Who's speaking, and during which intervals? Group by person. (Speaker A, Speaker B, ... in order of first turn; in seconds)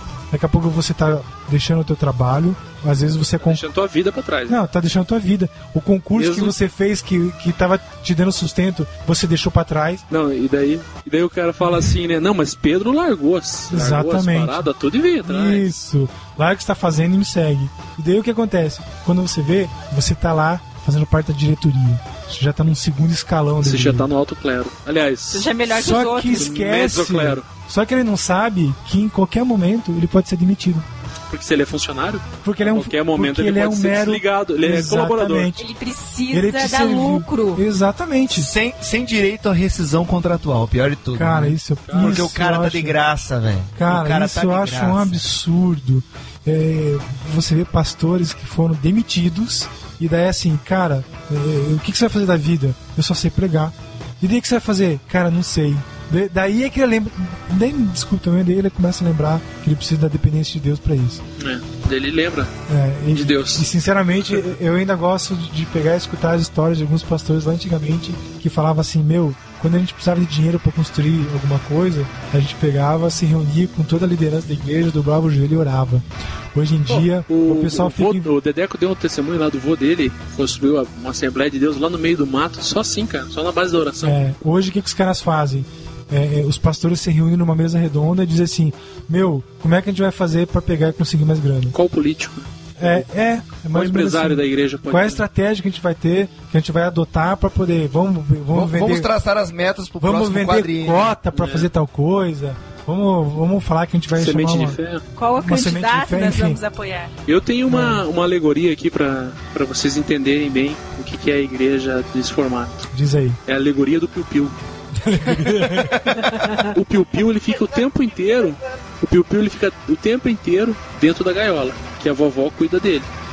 Speaker A: 0.3-3.6, 4.5-10.1, 13.7-14.7, 15.2-24.1, 25.7-30.9, 32.4-35.7, 36.3-38.5, 41.1-43.0, 43.8-61.2, 62.7-78.3, 84.0-91.8, 92.8-99.1, 100.0-104.8, 105.4-106.6, 107.7-108.0, 112.9-113.4, 115.0-116.6
Speaker B: 3.4-4.6, 6.2-6.5, 10.1-15.7, 23.6-25.5, 26.3-27.5, 31.3-35.5, 41.9-42.3, 61.4-62.5, 63.1-63.7, 76.9-84.2, 91.7-93.1, 93.7-95.2, 101.3-101.7, 104.1-105.0, 107.3-112.8, 113.5-114.6, 116.6-123.1
Speaker C: 25.3-26.5, 35.6-37.6, 105.2-107.1
Speaker D: 38.3-45.2, 98.5-101.1